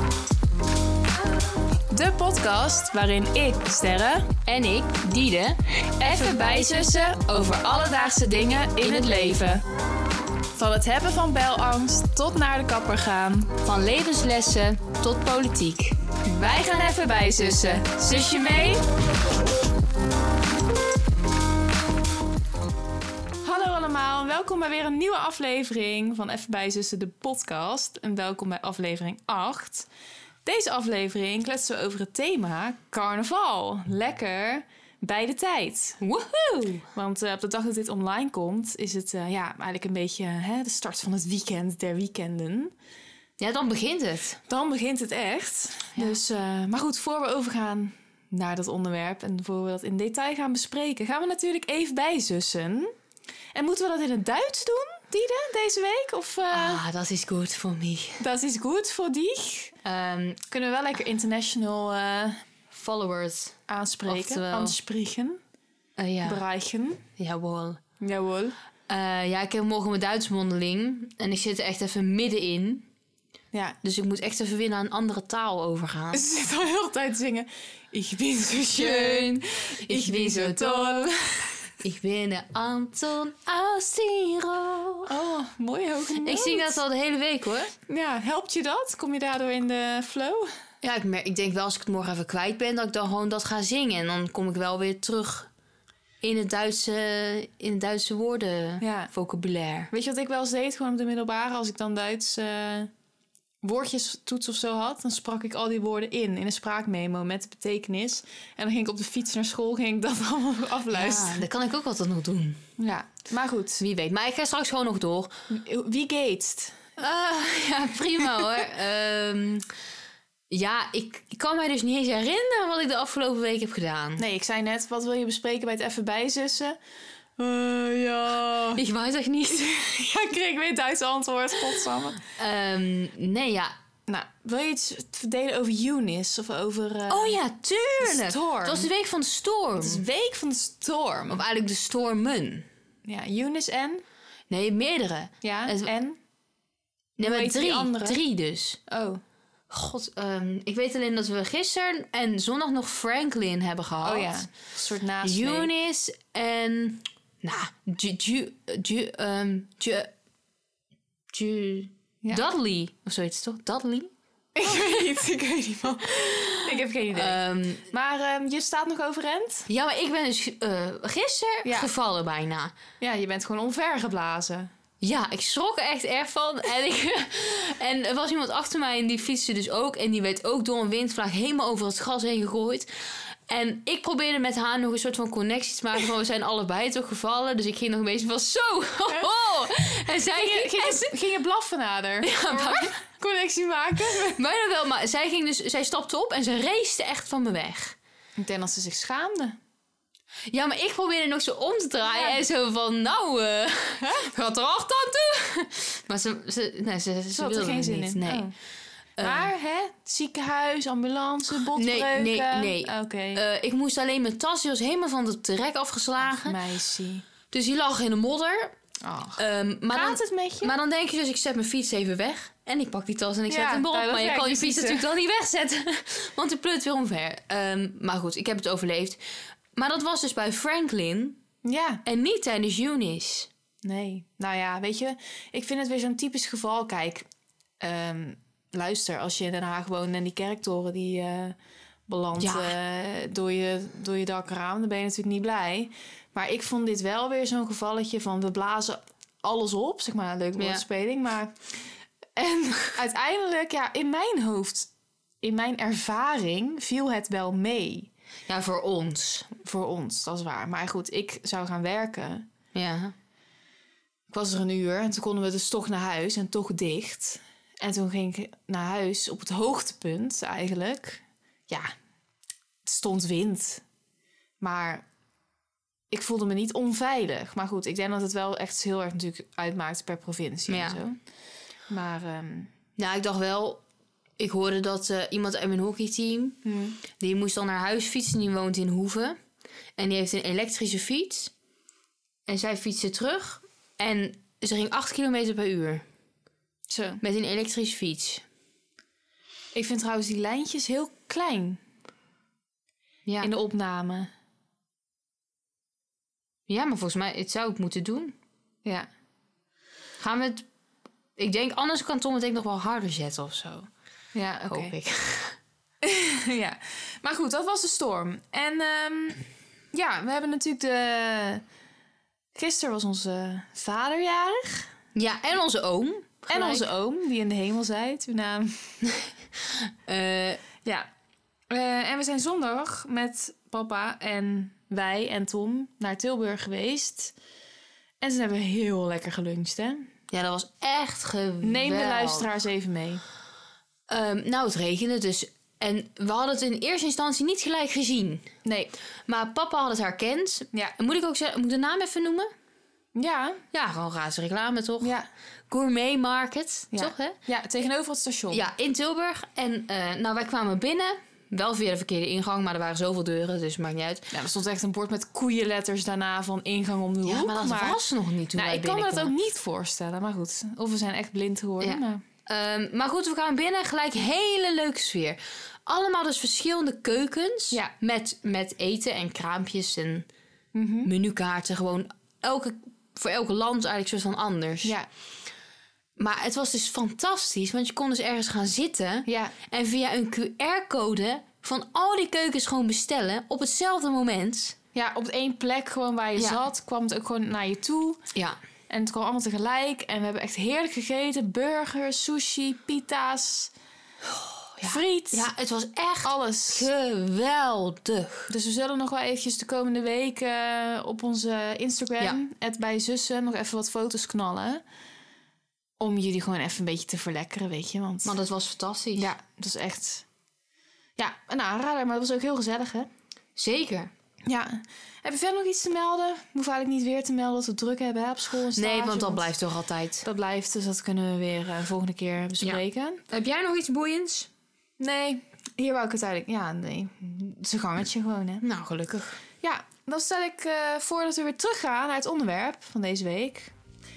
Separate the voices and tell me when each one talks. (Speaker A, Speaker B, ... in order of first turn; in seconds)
Speaker A: 1.9-4.4, 6.0-9.6, 10.5-13.6, 16.2-18.8, 23.4-29.9, 30.4-36.0, 36.9-42.7, 44.5-52.9, 53.5-56.8, 58.2-59.7, 60.5-62.4, 63.7-65.4, 66.2-67.0, 68.0-68.5, 76.1-81.5, 85.0-86.8, 87.9-90.5, 98.8-99.1, 99.9-102.9, 103.6-111.5, 112.8-113.8, 115.5-116.8, 124.2-126.8, 127.4-128.8, 129.5-132.2, 134.1-137.4, 138.0-138.9, 139.8-141.4, 143.1-144.0, 145.4-146.2, 147.2-148.2, 148.9-149.2, 154.0-155.7, 164.6-169.7, 171.6-171.9, 173.0-174.7, 190.2-194.4, 198.4-199.6, 202.0-202.4, 207.3-208.5, 209.2-213.4, 216.2-217.2, 219.0-220.7, 223.5-225.0, 231.6-232.0, 233.8-237.2, 237.8-241.6, 242.1-251.6, 252.3-254.9, 255.4-258.1, 259.6-262.4, 264.3-271.9, 272.8-273.8, 274.6-275.0, 276.1-281.2, 281.9-282.7, 286.6-287.0, 296.9-297.2, 299.7-301.8, 303.4-304.3, 314.3-314.9, 316.0-321.6, 322.5-324.9, 326.5-329.0, 331.7-337.3, 338.2-340.1, 341.6-343.2, 348.6-348.9, 353.1-353.6, 355.0-355.3, 356.9-358.6, 364.3-368.0, 368.5-372.2, 380.7-381.1, 389.2-389.5, 394.9-398.2, 398.9-403.7, 404.8-405.5, 406.2-406.9, 408.5-414.8, 416.0-418.4, 419.1-420.2, 421.2-423.1, 424.4-429.5, 430.2-433.2, 435.0-438.6, 439.6-443.7
Speaker B: 4.4-5.6, 8.8-9.4, 13.6-16.0, 36.0-36.9, 43.4-44.4, 56.5-58.2, 59.8-60.4, 62.7-63.5, 64.1-64.7, 66.0-66.4, 67.2-67.8, 68.9-72.8, 73.8-76.2, 78.7-81.1, 81.8-85.1, 86.2-87.7, 90.8-95.5, 96.2-99.9, 110.9-112.6, 113.8-115.3, 117.0-119.7, 120.5-124.2, 128.8-129.7, 132.3-133.7, 137.1-140.0, 141.3-142.7, 144.5-145.9, 147.2-148.8, 149.7-154.4, 155.2-160.1, 161.3-164.1, 166.2-167.9, 169.7-172.7, 175.0-182.9, 183.5-191.1, 192.2-192.9, 194.3-197.9, 200.5-208.5, 209.2-209.5, 211.7-216.6, 217.5-218.8, 219.4-229.2, 229.8-231.4, 232.0-233.5, 242.4-242.7, 250.6-250.8, 258.5-259.5, 262.7-263.1, 280.7-281.0, 283.0-283.8, 284.4-286.6, 287.1-289.4, 290.0-291.5, 292.5-296.0, 297.2-298.4, 306.7-308.3, 310.2-310.6, 311.4-313.9, 314.7-315.6, 325.1-326.9, 329.0-330.6, 340.3-342.5, 344.1-348.5, 349.3-352.5, 353.7-355.1, 355.7-357.4, 358.5-364.3, 367.2-369.3, 371.8-380.3, 381.0-384.9, 386.2-394.8, 404.3-408.5, 418.2-419.3, 423.6-424.1, 428.7-430.2, 432.6-434.5, 438.6-439.4